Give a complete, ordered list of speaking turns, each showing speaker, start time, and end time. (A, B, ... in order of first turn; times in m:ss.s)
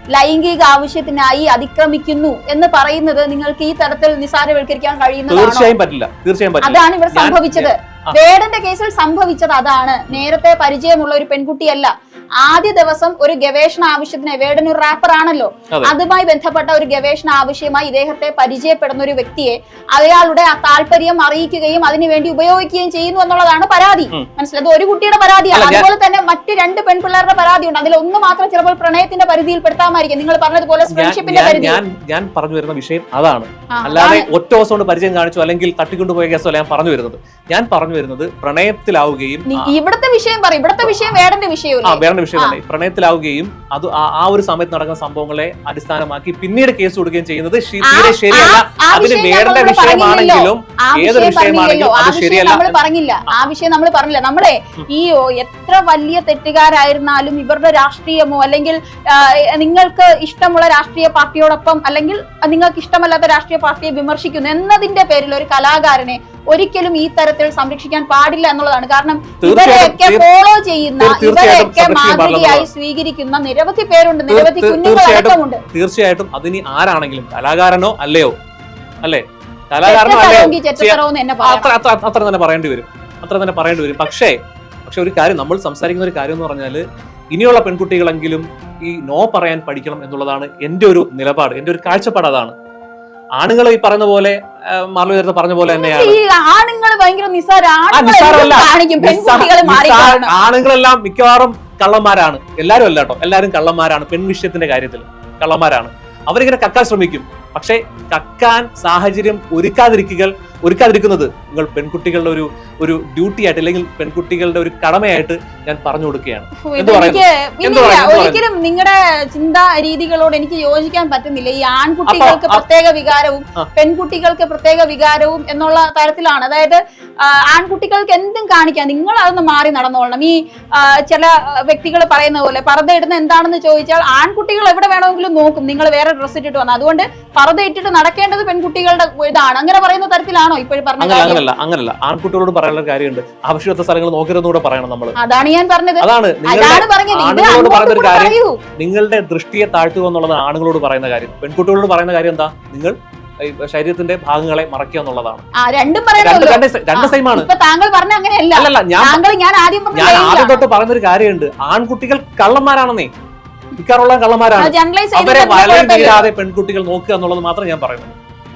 0:00.2-0:05.7 A
0:05.3-0:08.2 B
0:06.6-0:31.8 A
0:25.5-0:25.9 B
0:30.9-0:39.7 B
0:33.7-0:34.3 A
0:39.5-0:42.6 A
0:41.8-0:52.8 B
0:47.8-1:15.6 A
1:09.4-1:10.2 B
1:11.0-1:12.7 B
1:14.3-1:18.3 B
1:19.0-1:32.5 B
1:19.9-1:21.7 A
1:33.4-1:36.2 B
1:35.7-1:40.3 A
1:37.9-1:58.4 B
1:56.6-2:21.4 A
2:02.1-2:02.6 B
2:21.0-2:25.2 B
2:25.2-2:28.6 A
2:26.0-2:35.4 B
2:35.6-2:40.6 A
2:36.2-2:37.5 B
2:38.6-2:39.2 B
2:39.9-2:43.1 B
2:43.8-2:48.2 B
2:44.6-2:46.3 A